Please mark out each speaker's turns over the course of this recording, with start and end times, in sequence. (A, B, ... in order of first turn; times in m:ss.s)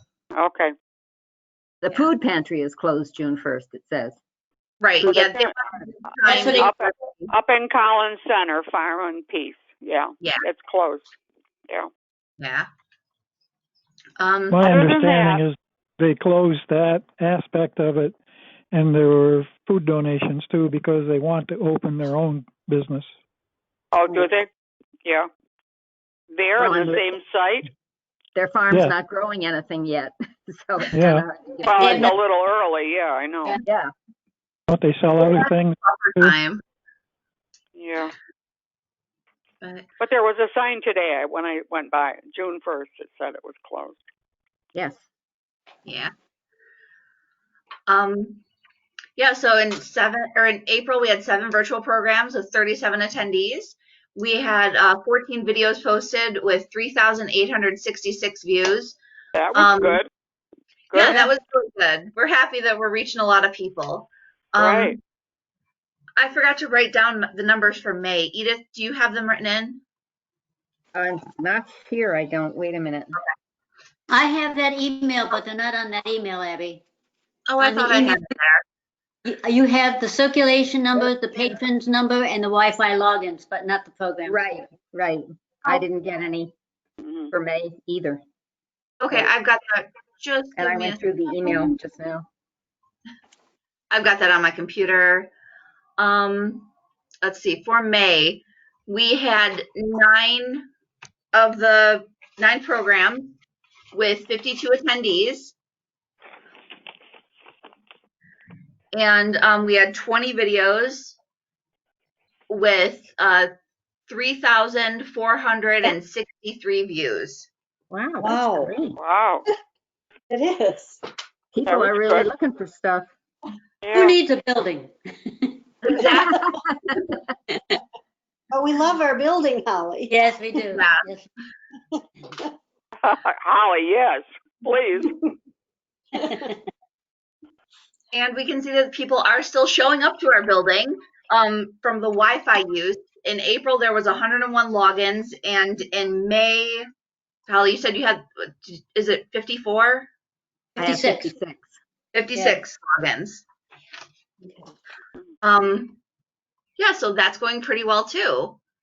0:00.3-0:00.7 A
0:01.8-0:04.2 B
0:04.8-0:07.3 C
0:05.0-0:05.9 B
0:05.1-0:05.5 A
0:06.2-0:11.1 A
0:06.2-0:06.7 D
0:12.4-0:12.7 C
0:14.2-0:14.6 C
0:14.5-0:18.2 E
0:14.6-0:15.4 A
0:18.7-0:23.1 E
0:23.9-0:24.5 A
0:26.3-0:27.7 A
0:26.6-0:27.2 B
0:28.3-0:32.1 B
0:30.9-0:31.2 E
0:31.6-0:33.5 A
0:31.7-0:32.2 D
0:34.7-0:36.4 E
0:35.2-0:36.6 C
0:37.7-0:38.1 A
0:40.0-0:44.0 A
0:44.7-0:45.0 B
0:45.8-0:46.1 C
0:47.9-0:48.4 C
0:49.2-0:59.0 C
0:59.4-1:00.1 A
0:59.5-1:00.0 C
1:00.9-1:01.2 A
1:00.9-1:05.0 C
1:04.6-1:05.0 A
1:06.2-1:09.8 C
1:10.9-1:13.2 B
1:14.1-1:16.8 D
1:17.5-1:18.6 C
1:17.6-1:18.3 D
1:19.2-1:24.4 D
1:24.2-1:26.5 B
1:27.0-1:27.3 A
1:27.3-1:28.2 B
1:29.0-1:31.7 C
1:30.6-1:32.2 B
1:33.9-1:35.3 C
1:36.0-1:36.7 C
1:37.2-1:40.7 C
1:41.3-1:43.3 C
1:43.9-1:45.5 C
1:48.9-1:51.2 C
1:52.5-1:53.5 C
1:54.1-1:57.5 C
1:57.9-1:59.0 B
1:58.2-1:58.7 F
1:59.0-1:59.4 A
2:00.3-2:01.0 F
2:01.5-2:03.1 B
2:01.6-2:02.3 A
2:03.8-2:04.2 A
2:03.9-2:05.6 D
2:05.8-2:07.0 C
2:06.1-2:07.0 B
2:08.5-2:10.1 F
2:10.0-2:11.3 D
2:10.7-2:11.1 C
2:13.0-2:15.1 A
2:16.3-2:16.6 D
2:18.1-2:26.8 C
2:27.5-2:30.1 C
2:30.8-2:31.3 D
2:30.8-2:31.7 B
2:32.1-2:33.4 C
2:35.4-2:36.0 C
2:36.8-2:38.6 C